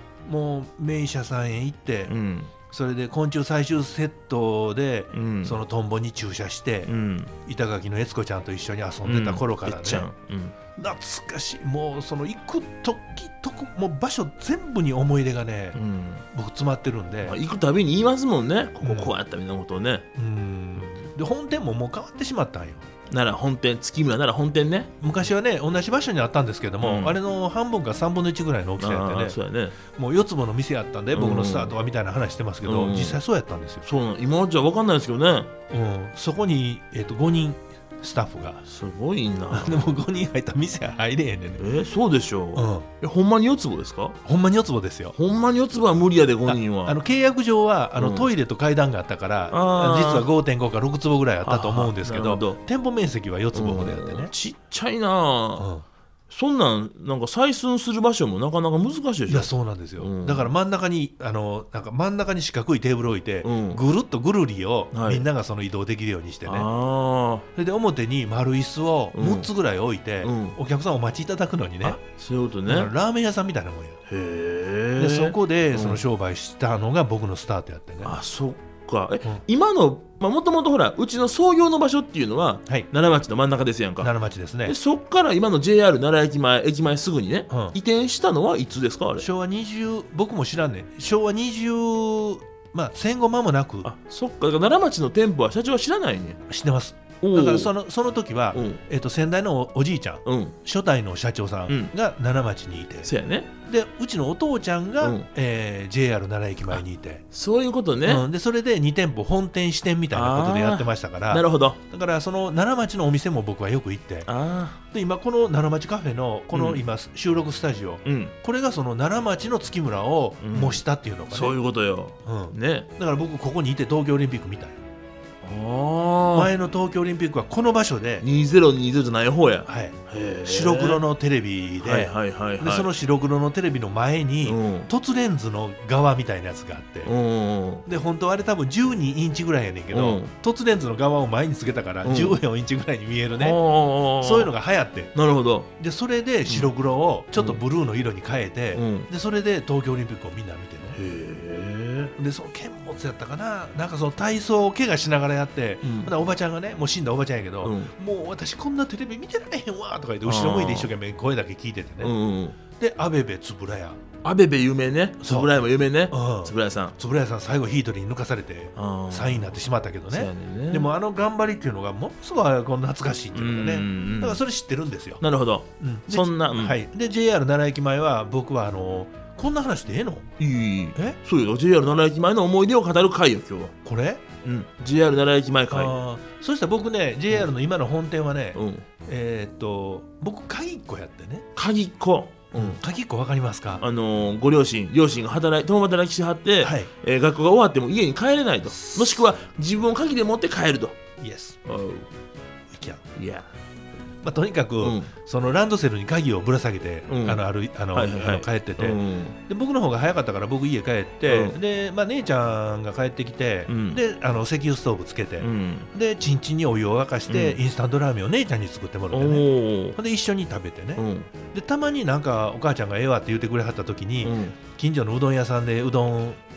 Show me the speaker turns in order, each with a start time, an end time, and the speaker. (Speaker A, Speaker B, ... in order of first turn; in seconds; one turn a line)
Speaker A: 0.2-2.1
Speaker B: 2.1-2.5
Speaker A: 2.7-6.9
Speaker B: 5.1-5.6
Speaker B: 6.8-7.3
Speaker A: 7.4-10.1
Speaker B: 9.0-10.5
Speaker A: 10.8-15.8
Speaker B: 15.7-16.2
Speaker A: 16.3-17.4
Speaker B: 17.2-20.1
Speaker A: 18.8-19.1
Speaker A: 20.1-22.8
Speaker B: 23.1-24.9
Speaker A: 25.0-29.4
Speaker B: 26.8-27.2
Speaker B: 28.8-29.8
Speaker A: 29.9-33.9
Speaker B: 31.1-31.8
Speaker B: 32.6-33.2
Speaker B: 33.8-35.5
Speaker A: 35.7-38.6
Speaker B: 38.7-40.0
Speaker A: 39.5-41.6
Speaker B: 41.6-44.2
Speaker A: 42.5-42.9
Speaker A: 44.2-45.1
Speaker B: 45.1-47.0
Speaker A: 46.5-54.3
Speaker B: 48.0-48.3
Speaker B: 49.5-50.3
Speaker B: 51.4-52.6
Speaker B: 53.5-55.7
Speaker A: 55.6-55.8
Speaker B: 56.3-60.5
Speaker A: 59.3-66.7
Speaker B: 63.4-63.8
Speaker B: 64.9-65.2
Speaker B: 66.5-67.5
Speaker A: 67.5-72.0
Speaker B: 69.1-69.5
Speaker B: 70.2-70.6
Speaker B: 71.8-72.9
Speaker A: 72.7-74.0
Speaker B: 74.1-76.0
Speaker A: 75.0-78.1
Speaker B: 78.0-84.1
Speaker A: 84.0-84.8
Speaker B: 84.6-89.2
Speaker A: 87.5-87.8
Speaker A: 89.2-93.9
Speaker B: 93.8-96.4
Speaker A: 96.5-103.1
Speaker B: 97.2-97.7
Speaker B: 98.5-98.8
Speaker B: 100.2-100.5
Speaker B: 103.0-103.5
Speaker A: 103.6-107.2
Speaker B: 105.0-105.3
Speaker B: 107.3-108.2
Speaker A: 108.0-114.3
Speaker B: 110.1-111.8
Speaker B: 114.3-114.8
Speaker A: 114.9-121.5
Speaker B: 116.5-116.8
Speaker B: 118.0-118.3
Speaker B: 120.4-122.9
Speaker A: 122.2-124.8
Speaker B: 125.4-126.5
Speaker A: 126.3-128.2
Speaker B: 128.2-131.0
Speaker A: 129.7-137.1
Speaker B: 131.8-132.9
Speaker B: 134.4-134.9
Speaker B: 137.1-137.8
Speaker A: 137.8-143.6
Speaker B: 139.9-140.3
Speaker B: 142.0-142.4
Speaker B: 143.3-144.5
Speaker A: 144.2-145.1
Speaker B: 145.1-145.7
Speaker A: 145.8-151.0
Speaker B: 147.3-147.6
Speaker B: 148.7-149.1
Speaker B: 150.9-152.1
Speaker A: 152.2-162.1
Speaker B: 155.8-156.1
Speaker B: 157.6-157.9
Speaker B: 160.2-160.9
Speaker B: 162.0-162.6
Speaker A: 162.7-164.0
Speaker B: 164.2-166.9
Speaker A: 165.2-175.2
Speaker B: 168.8-169.6
Speaker B: 170.1-170.9
Speaker B: 173.3-174.4
Speaker B: 175.2-176.8
Speaker A: 175.8-180.3
Speaker B: 180.4-183.7
Speaker A: 183.8-184.2
Speaker B: 184.4-186.0
Speaker A: 185.7-191.4
Speaker B: 188.5-188.8
Speaker B: 191.5-192.8
Speaker A: 192.5-193.8
Speaker B: 193.8-200.9
Speaker A: 196.6-196.9
Speaker A: 198.7-199.3
Speaker A: 201.2-201.6
Speaker B: 201.6-202.1
Speaker A: 202.7-203.0
Speaker B: 203.2-203.5
Speaker A: 204.2-226.4
Speaker B: 204.8-205.1
Speaker B: 207.1-209.3
Speaker B: 211.2-211.6
Speaker B: 213.7-214.0
Speaker B: 215.4-215.9
Speaker B: 217.3-217.6
Speaker B: 219.1-220.0
Speaker B: 221.0-221.3
Speaker B: 224.2-224.6